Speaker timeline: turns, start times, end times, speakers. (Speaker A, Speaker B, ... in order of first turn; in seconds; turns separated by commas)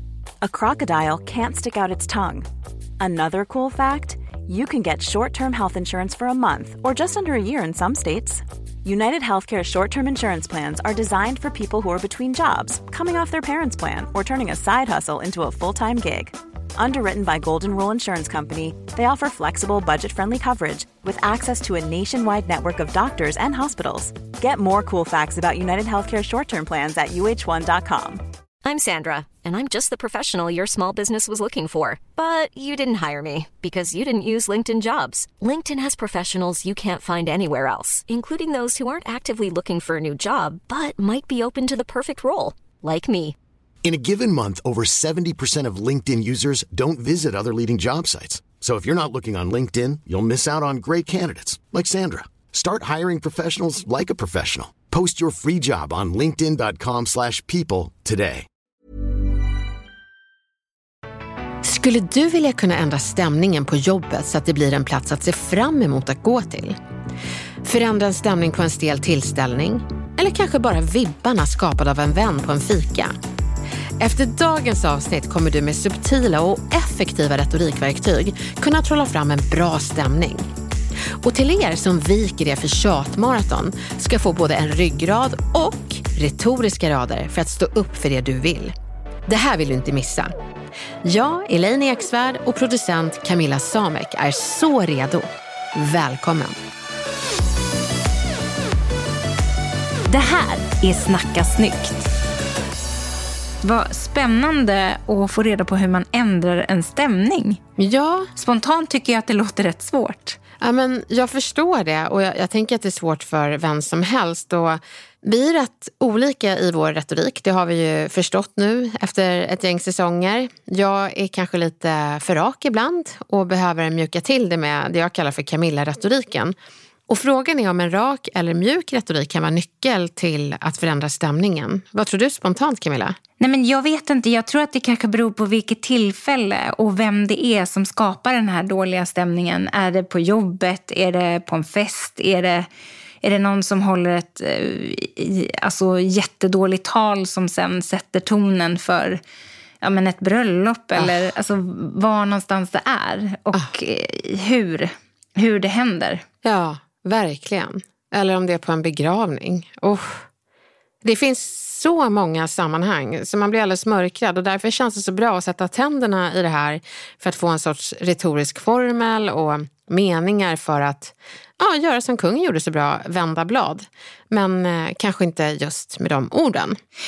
Speaker A: 0.4-2.5, Speaker A: 3.0-28.2, Speaker B: 28.6-43.4, Speaker C: 43.8-58.5, Speaker D: 61.6-66.8, Speaker D: 67.6-73.1, Speaker D: 74.0-80.5, Speaker D: 81.2-88.7, Speaker D: 89.3-90.3, Speaker D: 91.0-96.6, Speaker E: 100.1-102.1, Speaker E: 103.6-107.6, Speaker D: 107.8-108.3, Speaker E: 108.4-110.4, Speaker D: 110.6-126.5, Speaker D: 127.1-133.2, Speaker E: 133.4-142.7, Speaker E: 143.2-149.2, Speaker E: 149.8-156.2, Speaker D: 156.4-160.2, Speaker D: 161.0-176.8